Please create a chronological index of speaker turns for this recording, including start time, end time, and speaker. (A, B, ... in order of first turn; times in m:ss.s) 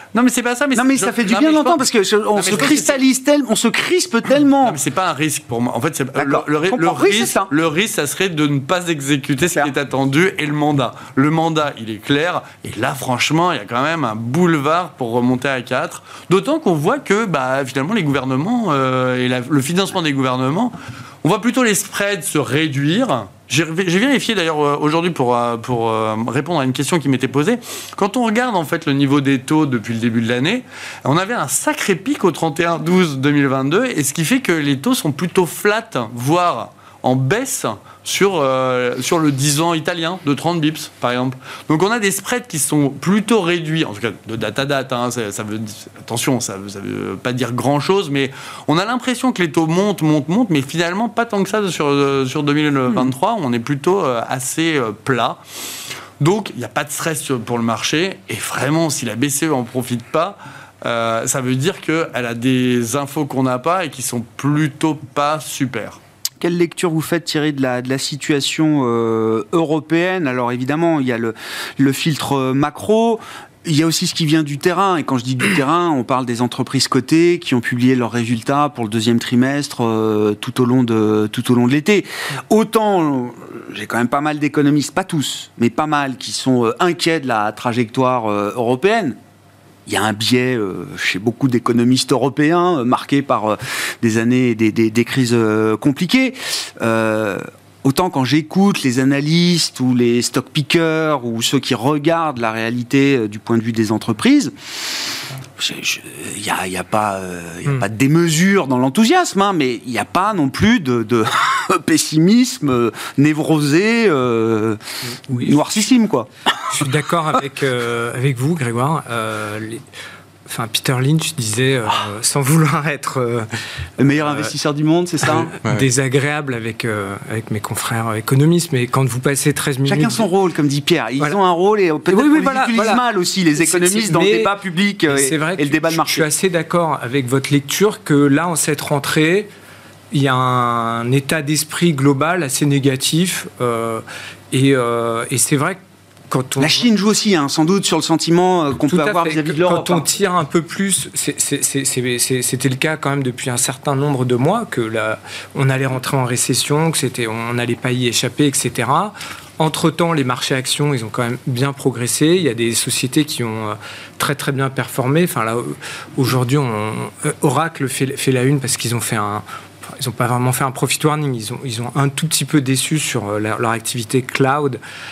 0:00.1-0:01.8 A
0:00.7-0:04.8 B
0:02.3-0:03.0 A
0:04.6-0:55.4 A
0:06.2-0:07.5 B
0:56.2-1:06.0 A
1:06.4-1:29.2 B
1:29.9-1:44.5 B
1:45.6-1:54.8 B
1:55.2-1:55.6 C
1:55.3-1:56.3 B
1:56.7-1:59.8 C
2:00.5-2:03.5 C
2:04.0-2:05.5 B
2:04.2-2:04.5 C
2:05.2-2:10.2 C
2:09.9-2:16.2 B
2:12.1-2:13.0 C
2:13.6-2:14.5 C
2:15.1-2:19.5 C
2:20.1-2:25.8 C
2:26.3-2:26.9 C
2:26.6-2:30.0 B
2:28.9-2:49.4 C
2:50.0-2:54.8 C